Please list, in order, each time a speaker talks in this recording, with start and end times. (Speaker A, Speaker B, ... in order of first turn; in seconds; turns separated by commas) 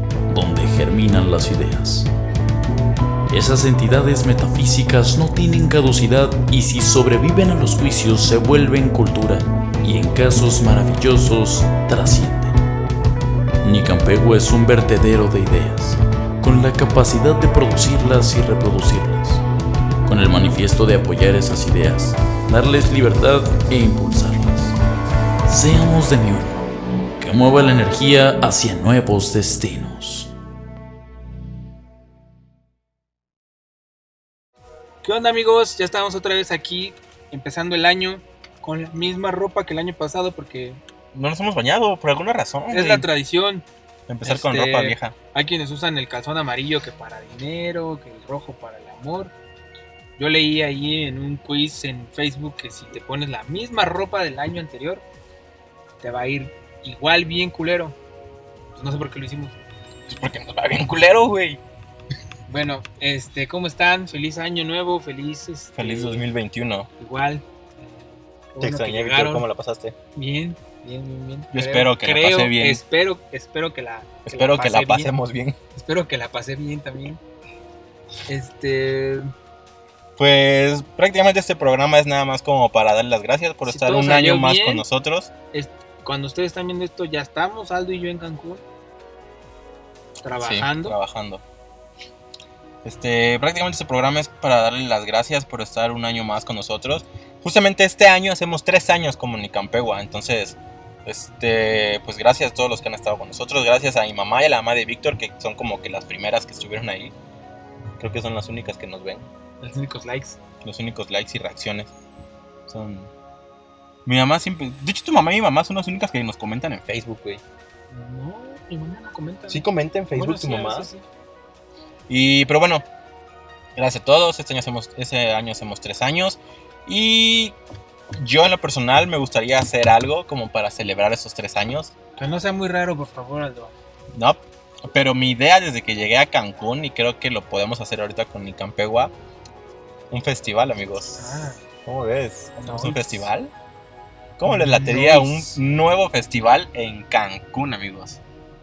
Speaker A: 0.3-2.1, Speaker A: 3.3-12.6, Speaker A: 13.6-19.4, Speaker A: 20.1-24.8, Speaker A: 25.5-26.6, Speaker A: 27.2-30.3, Speaker B: 35.0-40.8, Speaker C: 41.1-43.1, Speaker B: 42.7-43.7, Speaker C: 44.1-45.2, Speaker B: 44.2-49.3, Speaker B: 50.2-55.0, Speaker B: 56.0-58.0, Speaker B: 58.7-59.6, Speaker C: 60.1-61.6, Speaker B: 62.5-66.2, Speaker C: 65.8-66.9, Speaker B: 67.0-69.5, Speaker C: 68.6-70.0, Speaker B: 70.1-75.1, Speaker C: 71.5-72.8, Speaker C: 74.2-75.6, Speaker B: 75.7-77.2, Speaker B: 78.3-79.3, Speaker C: 80.2-85.3, Speaker B: 83.7-84.8, Speaker B: 85.5-88.6, Speaker B: 90.2-91.0, Speaker C: 90.4-91.4, Speaker C: 92.8-107.1, Speaker C: 108.0-109.3, Speaker B: 109.6-110.4, Speaker C: 110.6-111.9, Speaker C: 112.7-113.1, Speaker C: 114.1-117.4, Speaker B: 117.9-121.1, Speaker C: 119.5-120.9, Speaker C: 122.1-122.9, Speaker C: 123.8-127.6, Speaker C: 128.2-131.9, Speaker B: 132.2-133.7, Speaker C: 134.1-139.1, Speaker C: 140.1-143.5, Speaker B: 141.2-141.6, Speaker B: 142.6-143.3, Speaker C: 144.4-148.2, Speaker B: 144.5-145.6